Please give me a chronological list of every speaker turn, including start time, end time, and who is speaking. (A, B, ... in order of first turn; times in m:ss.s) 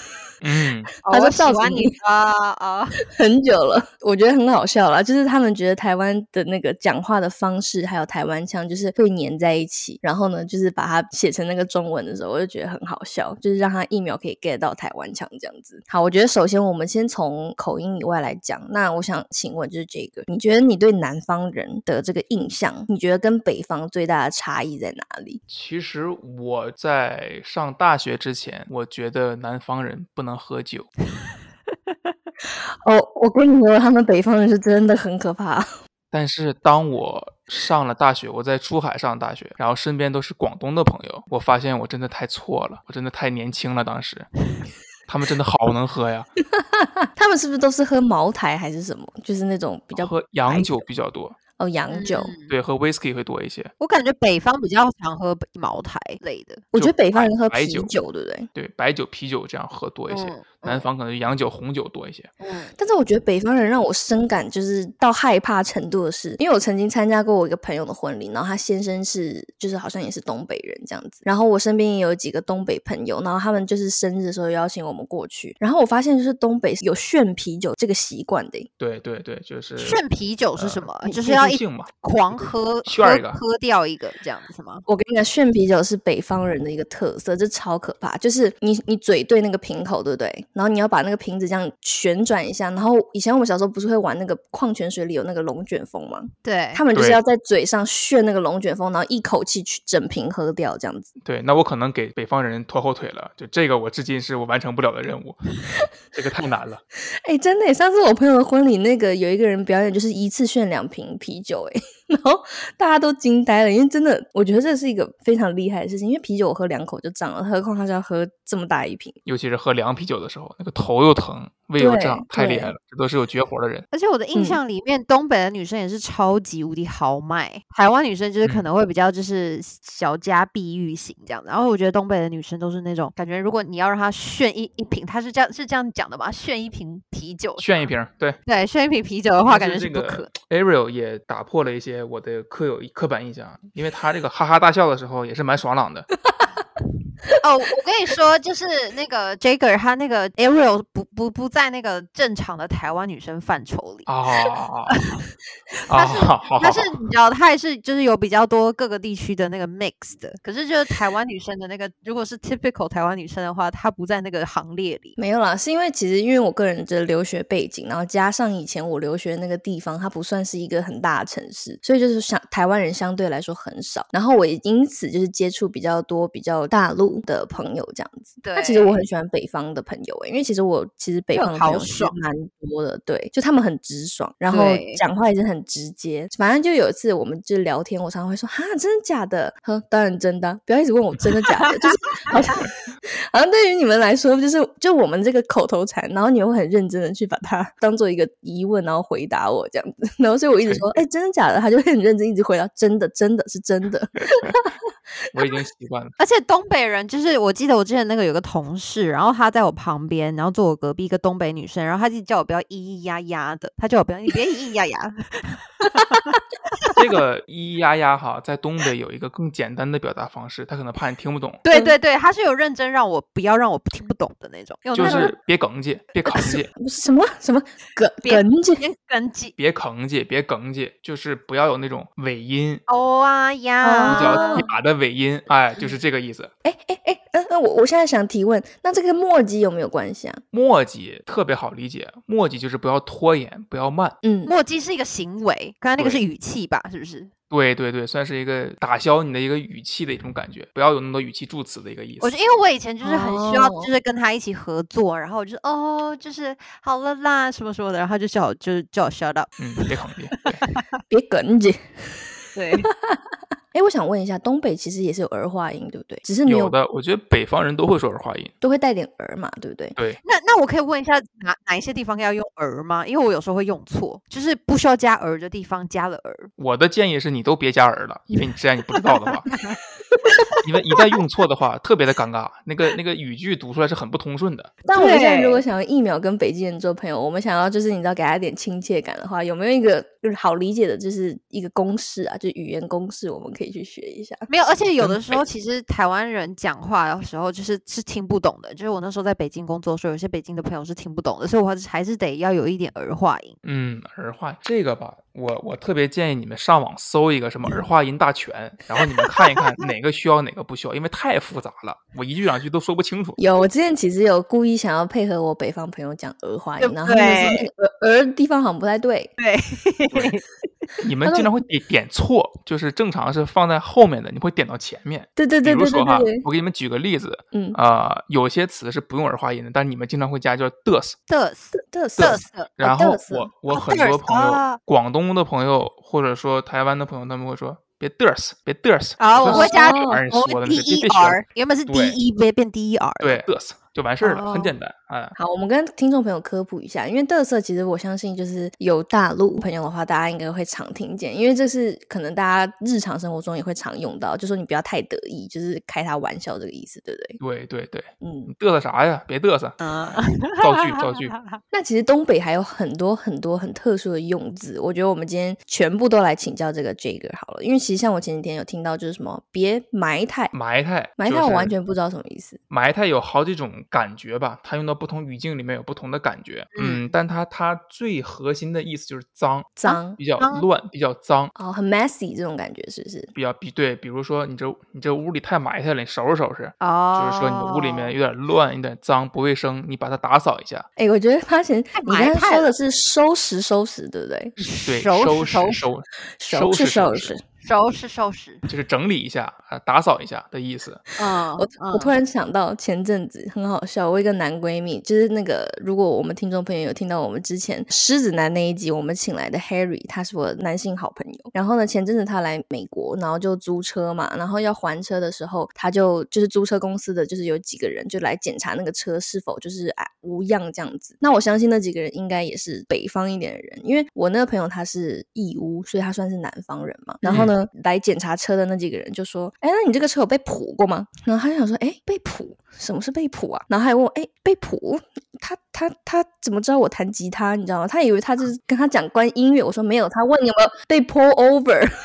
0:00.4-0:00.9 A
0:01.0-0:03.0 B
0:01.1-0:02.0 C
0:03.1-0:25.4 C
0:25.5-0:30.9 A
0:31.9-0:32.1 B
0:32.7-0:35.7 C
0:36.1-0:44.3 A
0:45.1-0:46.3 A
0:46.5-0:50.9 C
0:50.0-0:51.4 A
0:51.6-0:52.3 C
0:51.9-0:52.5 B
0:52.5-0:53.7 A
0:53.8-0:56.7 B
0:56.7-0:58.5 C
0:56.8-0:57.9 A
0:58.5-1:02.3 A
1:00.1-1:00.9 B
1:02.4-1:02.8 B
1:02.8-1:18.7 C
1:18.8-1:20.0 A
1:19.8-1:24.8 B
1:20.6-1:23.4 A
1:24.9-1:41.1 C
1:36.4-1:36.8 B
1:37.0-1:37.2 A
1:41.2-1:46.8 A
1:47.2-1:59.2 C
1:59.3-2:03.9 A
2:01.8-2:02.8 C
2:03.9-2:17.9 B
2:04.4-2:04.6 C
2:17.6-2:18.4 A
2:18.5-2:20.3 B
2:19.5-2:26.1 A
2:27.4-2:34.1 B
2:34.1-2:35.0 A
2:34.9-2:35.2 B
2:35.9-2:45.2 B
2:35.9-2:37.0 A
2:45.2-3:24.7 C
2:58.4-2:59.0 B
3:01.3-3:02.2 B
3:04.5-3:05.0 B
3:11.6-3:12.4 B
3:24.2-3:24.6 A
3:25.3-3:26.1 A
3:26.2-3:37.0 B
3:36.9-3:41.6 A
3:41.6-3:45.3 B
3:41.7-3:42.0 C
3:45.0-3:46.7 A
3:45.0-3:45.3 C
3:46.4-3:48.8 C
3:48.2-3:49.6 B
3:49.6-3:52.8 A
3:52.9-3:54.7 B
3:53.8-3:54.7 C
3:54.1-3:56.5 A
3:56.6-4:00.4 C
4:00.5-4:04.2 A
4:04.2-4:04.5 C
4:04.4-4:07.3 B
4:06.0-4:06.2 A
4:07.5-4:12.3 A
4:12.2-4:19.9 B
4:13.0-4:13.9 C
4:19.6-4:20.7 A
4:21.1-4:23.2 C
4:22.6-4:22.9 B
4:23.7-4:26.8 C
4:26.4-4:28.5 A
4:28.6-4:30.0 C
4:30.2-4:36.5 B
4:36.6-4:39.5 A
4:39.5-4:39.8 B
4:40.3-4:40.6 B
4:40.6-4:44.7 A
4:44.9-4:54.5 C
4:44.9-4:45.6 B
4:54.5-5:03.6 B
4:55.0-4:55.4 A
5:03.6-5:13.4 A
5:13.4-5:19.3 C
5:16.8-5:17.7 B
5:19.4-5:20.4 B
5:21.0-5:31.2 A
5:21.2-5:21.5 C
5:25.4-5:26.4 C
5:27.5-5:27.8 C
5:31.3-5:32.7 B
5:31.8-5:33.5 C
5:32.2-5:42.2 A
5:33.7-5:34.8 B
5:39.2-5:43.4 B
5:39.5-5:40.2 C
5:43.2-5:45.4 A
5:44.2-5:44.7 B
5:45.4-5:57.4 C
5:57.4-5:59.8 A
5:58.2-5:58.5 C
5:59.8-6:01.6 B
6:00.6-6:01.4 A
6:01.7-6:10.5 C
6:10.5-6:11.7 A
6:11.2-6:12.6 C
6:12.7-6:21.5 A
6:16.8-6:17.1 B
6:19.8-6:20.2 C
6:20.4-6:20.6 B
6:21.6-6:23.3 C
6:23.3-6:30.9 A
6:26.8-6:28.2 B
6:31.0-6:34.6 C
6:31.9-6:32.7 B
6:34.6-6:35.8 B
6:34.9-6:37.3 A
6:36.4-6:37.4 C
6:37.6-6:38.7 B
6:38.7-6:41.0 A
6:41.2-6:42.1 B
6:41.6-7:21.9 C
7:07.3-7:07.5 A